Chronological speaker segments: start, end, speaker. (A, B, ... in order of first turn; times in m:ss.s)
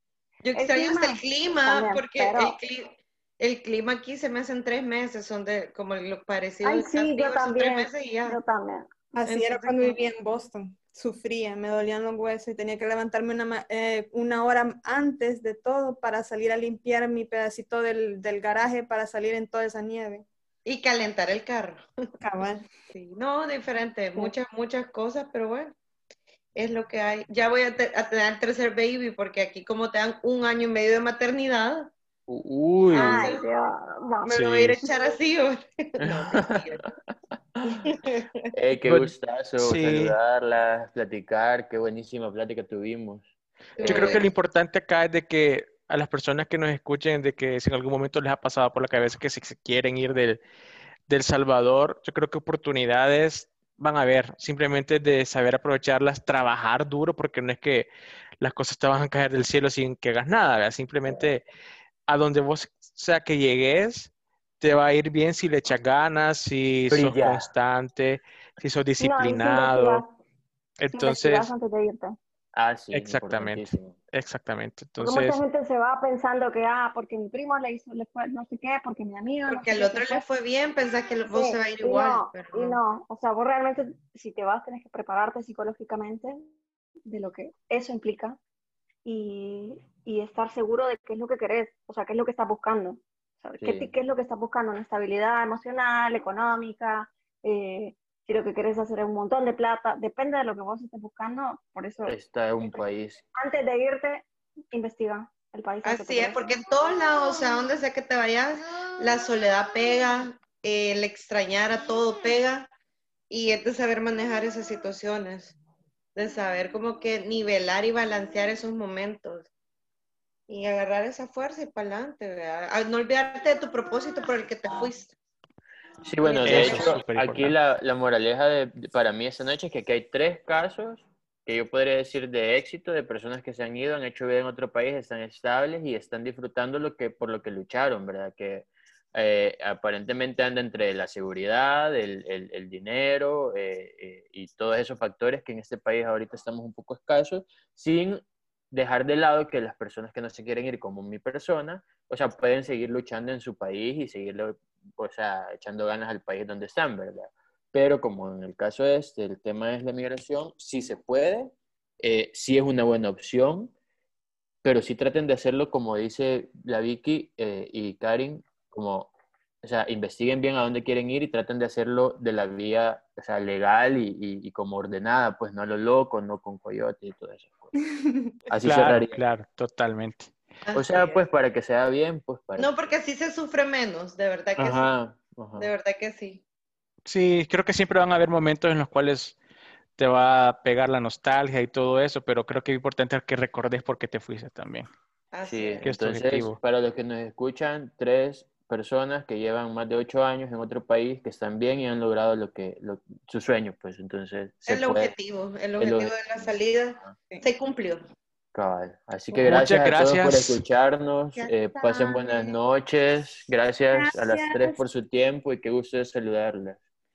0:00.4-0:08.4 A
0:00.5-0:02.6 B
0:06.6-0:08.9 B
0:09.1-0:20.2 C
0:09.3-0:10.0 A
0:20.6-0:21.9 A
0:22.2-0:22.7 C
0:22.9-0:25.8 A
0:26.6-0:31.9 A
0:32.3-0:33.3 D
0:32.9-0:33.4 A
0:32.9-0:34.3 B
0:34.2-0:36.9 A
0:34.3-0:34.8 E
0:36.0-0:36.6 D
0:37.8-0:38.4 A
0:38.5-0:43.2 D
0:38.8-0:40.2 E
0:43.8-0:44.2 A
0:43.8-0:44.2 D
0:43.8-0:50.4 E
0:51.1-0:57.9 E
0:58.4-1:01.4 E
1:02.1-1:10.0 E
1:06.9-1:07.5 D
1:09.0-1:10.1 B
1:10.8-1:11.5 E
1:10.9-1:12.2 B
1:12.5-1:14.0 D
1:12.9-1:15.4 E
1:15.0-1:20.2 B
1:19.5-1:22.8 A
1:21.3-1:26.5 B
1:27.0-1:28.4 B
1:29.0-1:46.4 B
1:33.6-1:33.9 D
1:42.0-1:43.2 D
1:45.8-1:52.7 A
1:53.3-1:55.6 A
1:56.2-1:59.5 A
2:00.5-2:05.1 A
2:06.0-2:43.7 D
2:06.2-2:07.0 A
2:06.4-2:07.5 E
2:44.6-2:49.1 D
2:49.6-2:57.7 D
2:57.7-2:58.3 C
2:58.5-2:59.2 D
2:58.6-3:00.3 E
3:00.7-3:01.2 A
3:00.7-3:02.8 D
3:02.6-3:04.9 A
3:04.6-3:05.7 D
3:05.6-3:06.4 A
3:07.0-3:09.4 E
3:10.0-3:14.9 E
3:15.3-3:15.9 A
3:15.4-3:25.1 D
3:15.8-3:16.6 E
3:24.7-3:28.0 A
3:25.8-3:27.1 D
3:28.5-3:36.8 D
3:29.3-3:30.6 E
3:31.4-3:32.5 A
3:33.9-3:34.8 C